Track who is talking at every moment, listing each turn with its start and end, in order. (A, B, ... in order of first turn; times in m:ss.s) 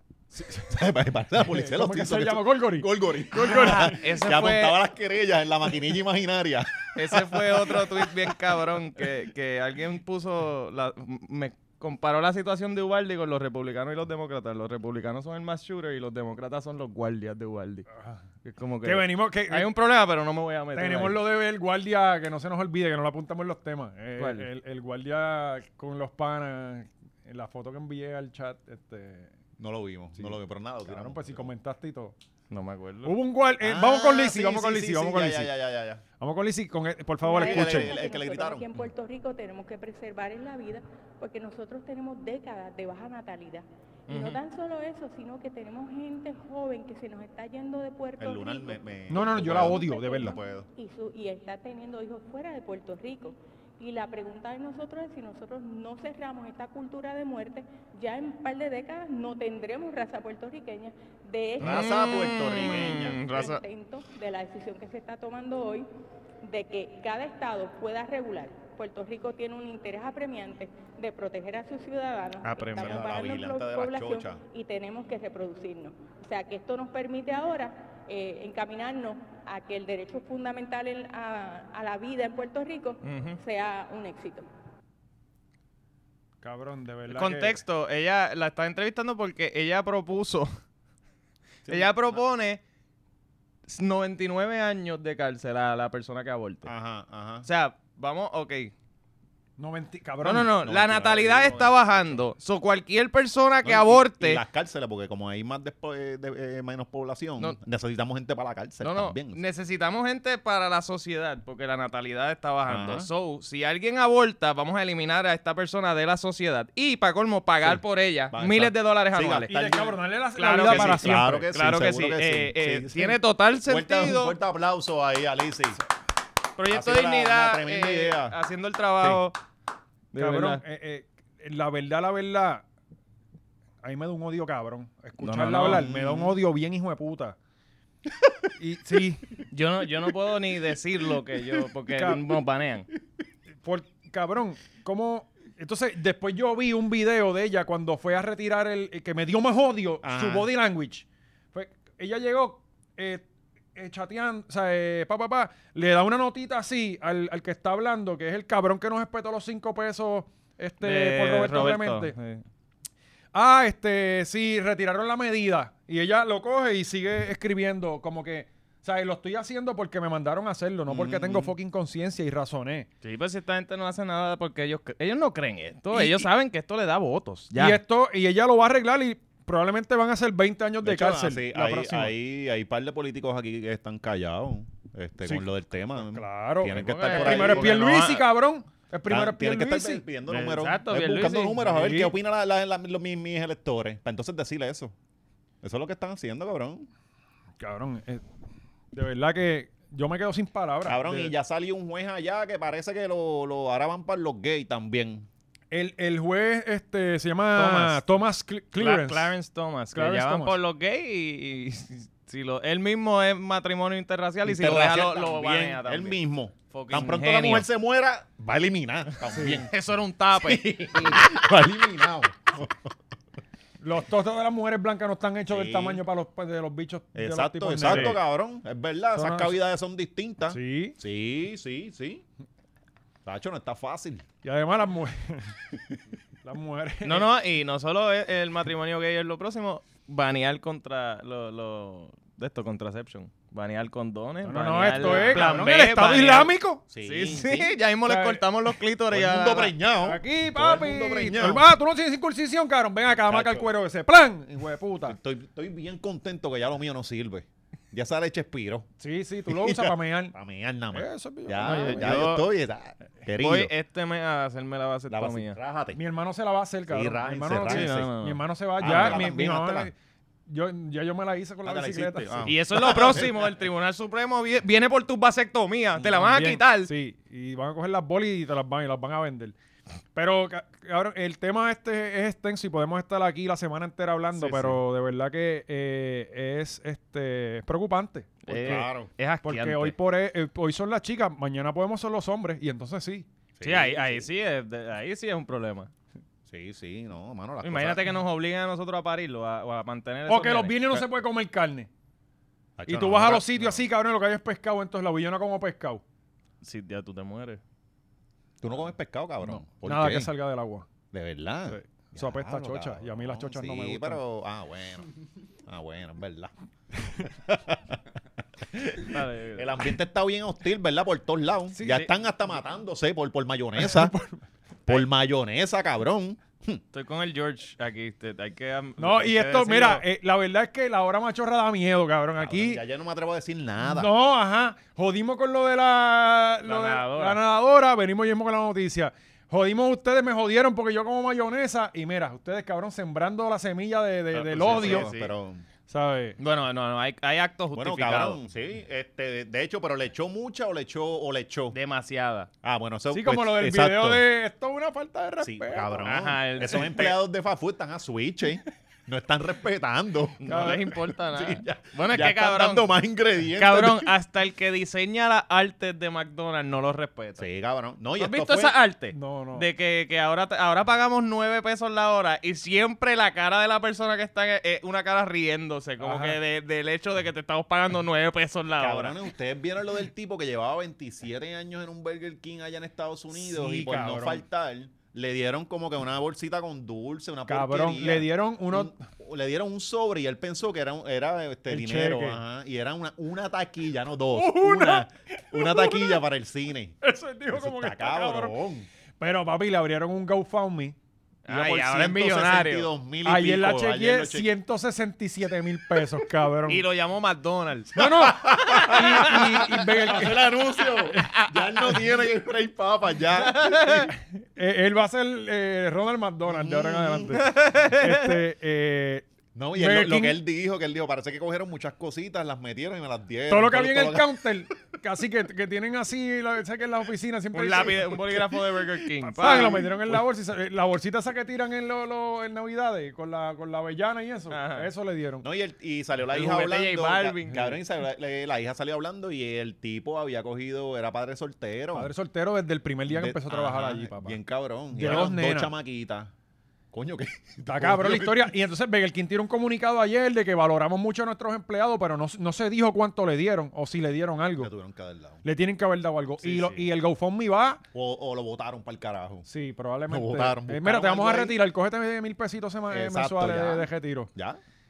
0:00.3-0:08.6 A
0:01.5-0:04.1 B
0:03.5-0:04.8 C
0:07.0-0:17.9 C
0:17.9-0:18.2 B
0:18.4-0:21.2 C
0:18.8-0:19.7 B
0:20.8-0:29.3 B
0:24.2-0:24.5 C
0:29.6-0:31.5 A
0:30.2-0:32.1 B
0:32.5-0:33.2 C
0:33.0-0:35.5 B
0:33.6-0:36.0 A
0:36.2-0:37.9 B
0:37.2-1:05.9 D
0:37.4-0:38.8 A
0:44.1-0:44.4 C
0:48.2-0:50.7 A
0:49.1-0:50.4 B
1:01.6-1:03.5 A
1:01.6-1:03.6 C
1:06.4-1:24.5 D
1:12.4-1:13.0 C
1:12.8-1:14.4 A
1:23.0-1:23.4 C
1:26.4-1:27.6 B
1:27.1-1:30.5 C
1:31.6-1:32.2 A
1:31.7-1:32.6 C
1:33.7-1:36.7 C
1:36.6-1:37.5 A
1:37.4-1:38.7 C
1:39.6-1:40.5 B
1:40.2-1:44.4 C
1:40.6-1:42.2 A
1:43.6-1:49.4 A
1:48.8-1:59.5 C
1:52.7-1:53.1 A
1:57.6-2:00.0 A
1:59.5-2:01.5 B
2:00.4-2:04.4 C
2:00.6-2:05.8 A
2:06.6-2:09.4 C
2:06.7-2:08.4 A
2:10.1-2:10.6 C
2:10.2-2:12.6 B
2:13.8-2:17.4 B
2:15.2-2:15.9 C
2:15.7-2:16.4 A
2:18.6-2:19.2 B
2:19.5-2:22.9 C
2:22.0-2:22.2 B
2:23.6-2:42.2 B
2:30.0-2:30.5 A
2:40.8-2:42.4 C
2:43.3-2:52.9 B
2:50.9-2:51.5 A
2:53.0-2:57.8 C
2:56.0-2:56.2 A
2:57.5-3:02.1 B
3:00.8-3:07.8 A
3:06.0-3:10.0 B
3:06.7-3:08.3 C
3:09.1-3:15.0 A
3:10.3-3:11.6 C
3:11.6-3:12.2 B
3:15.6-3:16.9 A
3:17.6-3:18.2 B
3:18.9-3:21.3 B
3:20.9-3:25.3 A
3:25.7-3:29.3 B
3:27.6-3:28.0 C
3:28.8-3:36.2 C
3:29.9-3:30.6 B
3:34.4-3:39.7 A
3:36.7-3:37.7 C
3:39.4-3:41.3 C
3:40.4-3:42.9 A
3:43.8-3:48.2 B
3:45.5-3:46.0 A
3:47.2-3:52.2 A
3:47.8-3:48.2 C
3:49.1-3:49.6 B
3:50.5-3:51.0 B
3:53.2-3:54.2 A
3:54.4-3:55.5 B
3:56.4-3:57.3 B
3:57.0-4:06.5 C
4:04.4-4:06.8 B
4:04.9-4:05.7 A
4:06.9-4:07.8 A
4:07.0-4:09.7 C
4:08.1-4:08.4 B
4:09.1-4:11.6 A
4:10.0-4:15.2 B
4:13.2-4:13.7 A
4:15.0-4:18.9 A
4:19.0-4:20.4 B
4:19.5-4:23.7 A
4:20.9-4:22.2 B
4:21.6-4:22.5 C
4:23.4-4:25.6 C
4:25.1-4:26.0 A
4:26.0-4:29.9 B
4:26.9-4:28.1 A
4:27.6-4:29.2 C
4:28.8-4:29.9 A
4:30.5-4:32.5 B
4:31.6-4:33.5 A
4:32.5-4:36.9 C
4:36.0-4:36.3 A
4:36.2-4:39.6 B
4:40.2-4:48.9 B
4:44.4-4:44.8 C
4:48.5-4:50.0 C
4:48.6-4:49.1 A
4:49.4-4:53.3 B
4:53.6-4:54.3 A
4:53.6-4:55.9 C
4:56.5-4:58.0 A
4:57.6-5:01.0 C
5:00.3-5:01.9 B
5:02.8-5:03.8 A
5:02.9-5:06.0 B
5:06.6-5:07.6 C
5:08.6-5:10.3 A
5:09.4-5:10.9 B
5:11.1-5:15.1 A
5:11.7-5:14.2 B
5:15.7-5:18.0 A
5:18.6-5:24.1 A
5:19.1-5:19.8 C
5:21.7-5:22.1 B
5:23.8-5:24.4 B
5:24.9-5:26.8 A
5:26.9-5:30.0 C
5:29.0-5:32.8 B
5:32.4-5:34.1 A
5:33.8-5:45.1 B
5:36.6-5:37.4 C
5:44.4-5:45.3 C
5:44.4-5:45.6 A
5:45.9-5:46.4 B
5:46.4-5:48.4 C
5:47.7-5:51.8 A
5:51.7-5:52.5 C
5:52.6-5:54.2 A
5:53.1-5:56.1 B
5:55.4-6:04.1 A
5:56.0-5:57.2 C
6:00.4-6:02.9 C
6:00.5-6:00.8 B
6:03.6-6:07.5 C
6:07.4-6:08.8 A
6:08.2-6:19.2 C
6:09.1-6:09.7 B
6:16.0-6:16.4 B
6:18.8-6:37.0 A
6:23.3-6:24.4 B
6:27.5-6:29.0 B
6:31.7-6:32.4 B
6:34.3-6:36.2 B
6:37.0-6:38.6 B
6:37.5-6:38.9 A
6:39.2-6:41.0 B
6:41.5-6:42.9 C
6:41.5-6:44.5 A
6:43.2-6:46.8 B
6:46.7-6:48.0 C
6:47.9-6:50.5 B
6:48.0-6:54.1 A
6:48.8-6:49.4 C
6:51.3-6:51.7 C
6:53.4-6:54.1 C
6:54.6-7:00.4 B
6:56.5-6:57.4 A
6:57.3-6:58.4 C
6:59.6-7:04.7 A
7:03.5-7:08.2 B
7:07.5-7:09.9 C
7:09.3-7:15.5 B
7:09.4-7:10.2 A
7:14.5-7:14.9 C
7:15.4-7:22.1 A
7:16.3-7:17.8 C
7:21.9-7:24.4 B
7:23.1-7:26.3 A
7:24.9-7:25.7 B
7:26.9-7:28.6 A
7:27.6-7:34.7 B
7:34.6-7:35.4 A
7:35.4-7:37.8 B
7:36.4-7:36.8 C
7:37.9-7:39.5 A
7:39.5-7:44.3 B
7:40.1-7:41.6 A
7:42.9-7:44.6 A